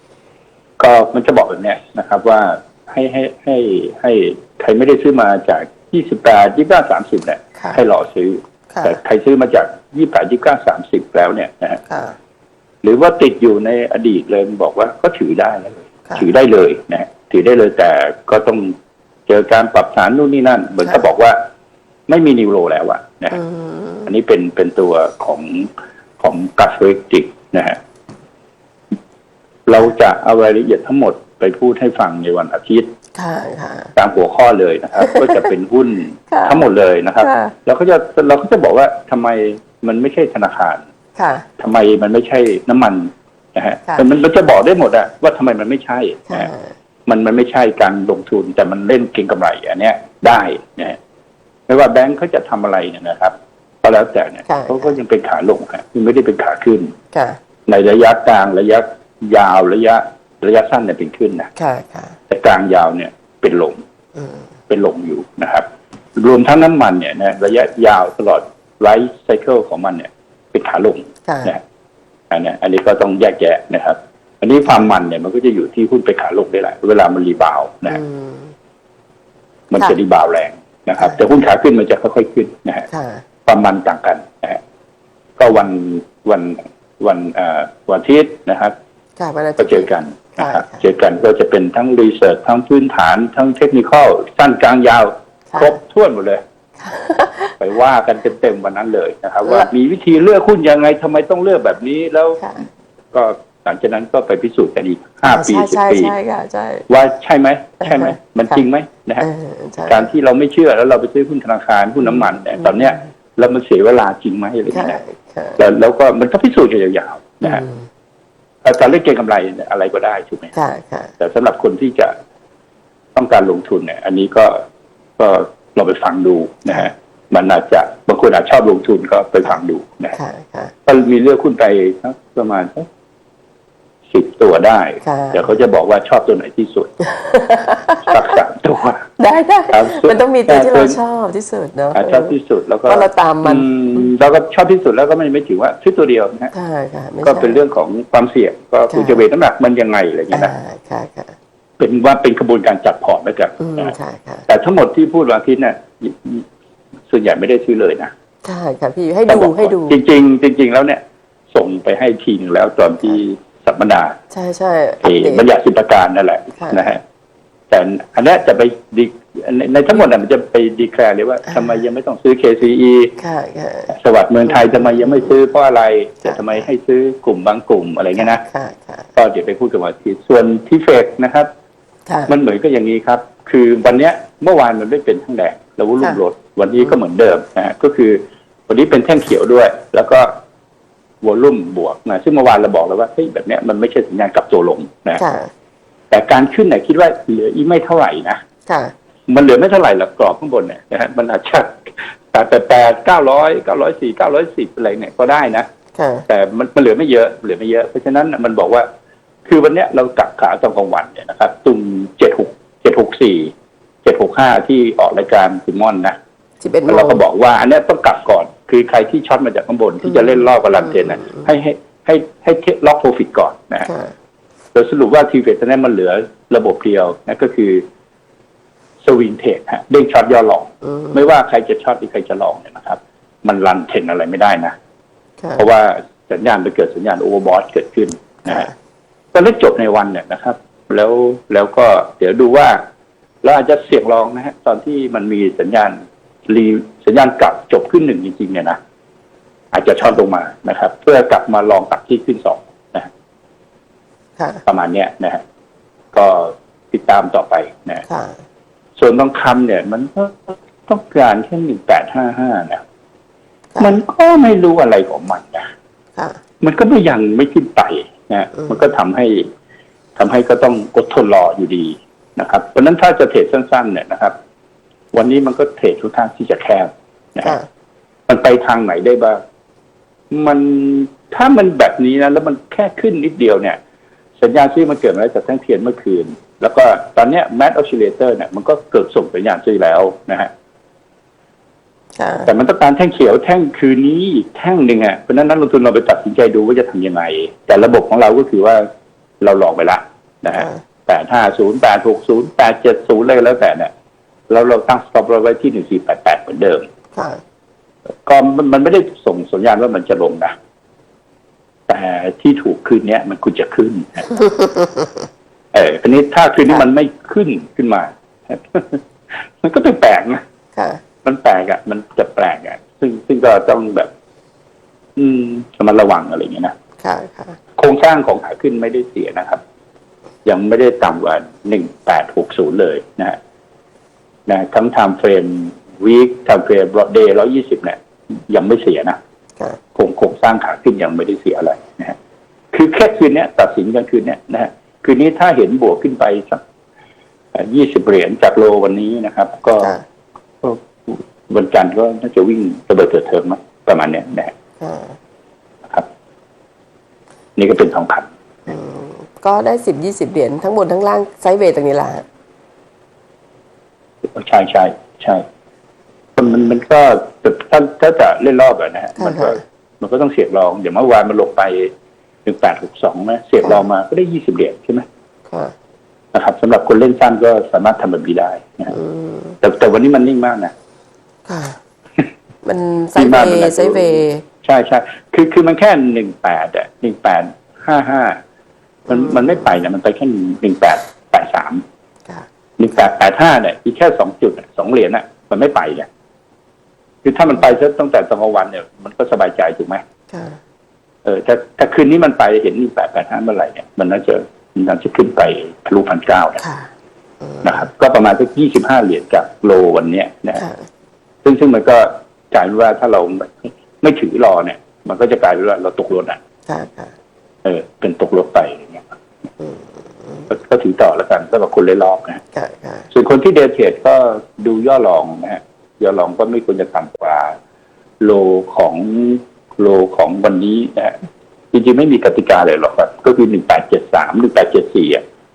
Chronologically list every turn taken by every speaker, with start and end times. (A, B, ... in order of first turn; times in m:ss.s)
0:00.8-0:11.8 A
0:08.7-0:09.0 B
0:11.9-0:12.1 B
0:12.8-0:18.7 A
0:19.3-0:21.4 A
0:22.1-0:23.4 A
0:23.3-0:24.1 B
0:24.0-0:25.7 A
0:26.2-0:27.8 A
0:29.6-0:32.9 A
0:33.1-0:33.9 B
0:34.0-0:40.8 A
0:35.0-0:35.4 B
0:36.3-0:36.6 B
0:37.2-0:37.5 B
0:41.2-0:41.4 B
0:41.6-0:46.5 A
0:46.3-0:46.7 B
0:47.1-0:51.0 A
0:51.7-0:56.9 A
0:54.4-0:54.9 B
0:57.1-0:57.4 B
0:57.7-1:01.5 A
1:01.6-1:02.2 B
1:02.3-1:03.8 A
1:04.2-1:04.4 B
1:04.7-1:05.6 A
1:06.2-1:11.6 A
1:11.2-1:11.5 B
1:12.3-1:18.0 A
1:17.9-1:18.5 B
1:19.7-1:22.9 A
1:21.0-1:21.2 B
1:22.9-1:23.2 B
1:23.4-1:24.6 A
1:25.4-1:28.7 A
1:29.2-1:30.8 B
1:29.6-1:36.4 A
1:35.5-1:35.8 B
1:36.8-1:37.6 B
1:37.6-1:42.4 A
1:39.4-1:39.7 B
1:42.4-1:42.7 B
1:43.1-1:46.1 A
1:45.2-1:46.8 B
1:46.9-1:49.2 A
1:47.8-1:48.6 B
1:49.2-1:50.1 B
1:49.8-1:55.0 A
1:52.6-1:53.0 B
1:54.7-1:55.6 B
1:55.6-1:57.6 A
1:57.4-1:57.8 B
1:58.6-2:00.5 A
2:00.5-2:01.1 B
2:01.2-2:02.1 A
2:03.1-2:04.6 A
2:05.2-2:10.2 A
2:10.1-2:10.7 B
2:10.8-2:12.9 A
2:14.1-2:16.9 A
2:15.0-2:15.5 B
2:17.0-2:18.3 B
2:18.0-2:19.1 A
2:19.2-2:22.4 B
2:19.7-2:21.0 A
2:21.9-2:26.5 A
2:22.9-2:24.1 B
2:26.5-2:27.6 B
2:27.2-2:30.5 A
2:28.9-2:29.2 B
2:30.3-2:31.4 B
2:31.8-2:33.9 A
2:33.6-2:34.4 B
2:34.5-2:36.4 A
2:37.1-2:38.1 A
2:38.4-2:40.0 B
2:39.3-2:41.0 A
2:41.5-2:44.2 A
2:44.3-2:45.4 B
2:45.0-2:47.0 A
2:46.6-2:46.9 B
2:47.7-2:53.1 A
2:53.2-2:53.9 B
2:53.9-2:58.4 A
2:54.5-2:55.3 B
2:56.2-2:56.6 B
2:58.2-2:59.1 B
2:59.2-3:01.5 A
3:02.1-3:02.3 B
3:02.3-3:10.3 A
3:11.2-3:15.2 A
3:15.2-3:15.5 B
3:16.1-3:18.4 A
3:18.7-3:18.9 B
3:19.3-3:25.7 A
3:26.0-3:26.2 B
3:26.3-3:28.8 A
3:29.4-3:33.5 A
3:34.0-3:36.2 A
3:36.6-3:37.2 B
3:36.9-3:43.9 A
3:40.0-3:41.5 B
3:43.8-3:44.1 B
3:44.7-3:47.8 A
3:49.0-3:54.7 A
3:50.8-3:51.2 B
3:55.6-3:58.7 A
3:58.4-3:58.7 B
3:59.3-4:02.8 A
4:03.4-4:06.0 A
4:06.5-4:08.8 A
4:09.7-4:13.1 A
4:14.4-4:14.6 B
4:14.6-4:15.4 A
4:16.1-4:18.0 A
4:18.1-4:18.4 B
4:19.0-4:22.8 A
4:23.8-4:25.7 A
4:26.6-4:29.5 A
4:28.5-4:28.8 B
4:30.2-4:34.3 A
4:35.1-4:37.6 A
4:38.3-4:39.4 A
4:40.3-4:43.8 A
4:44.4-4:50.5 A
4:52.2-4:52.5 B
4:52.4-4:58.8 A
4:59.4-5:03.9 A
5:00.5-5:00.8 B
5:04.5-5:06.8 A
5:07.1-5:07.4 B
5:08.2-5:10.5 A
5:11.9-5:14.3 A
5:14.3-5:15.2 B
5:15.7-5:19.0 A
5:19.6-5:20.4 A
5:20.7-5:21.0 B
5:21.2-5:24.1 A
5:25.2-5:26.7 A
5:27.0-5:27.6 B
5:27.8-5:29.6 A
5:30.4-5:33.4 A
5:34.5-5:38.0 A
5:38.5-5:39.2 A
5:39.9-5:42.1 A
5:42.7-5:46.6 A
5:47.5-5:49.9 A
5:49.8-5:50.0 B
5:50.6-5:54.5 A
5:54.8-5:55.2 B
5:57.6-5:58.3 A
5:58.7-6:02.2 B
6:04.3-6:05.4 A
6:06.4-6:11.9 A
6:09.2-6:09.6 B
6:12.4-6:15.0 A
6:16.3-6:18.9 A
6:18.9-6:19.6 B
6:19.6-6:20.7 A
6:21.4-6:21.8 B
6:22.6-6:24.4 B
6:23.1-6:28.4 A
6:29.1-6:29.8 B
6:29.1-6:31.8 A
6:32.8-6:36.1 A
6:37.2-6:40.0 A
6:40.3-6:40.6 B
6:41.2-6:46.6 A
6:46.6-6:46.9 B
6:47.4-6:47.9 B
6:47.6-6:50.6 A
6:50.6-6:50.9 B
6:51.4-6:56.4 A
6:56.7-6:57.1 B
6:57.6-6:59.0 A
6:59.6-7:00.5 B
7:00.5-7:02.4 A
7:02.5-7:03.1 B
7:03.1-7:07.5 A
7:08.2-7:11.2 A
7:11.7-7:15.2 A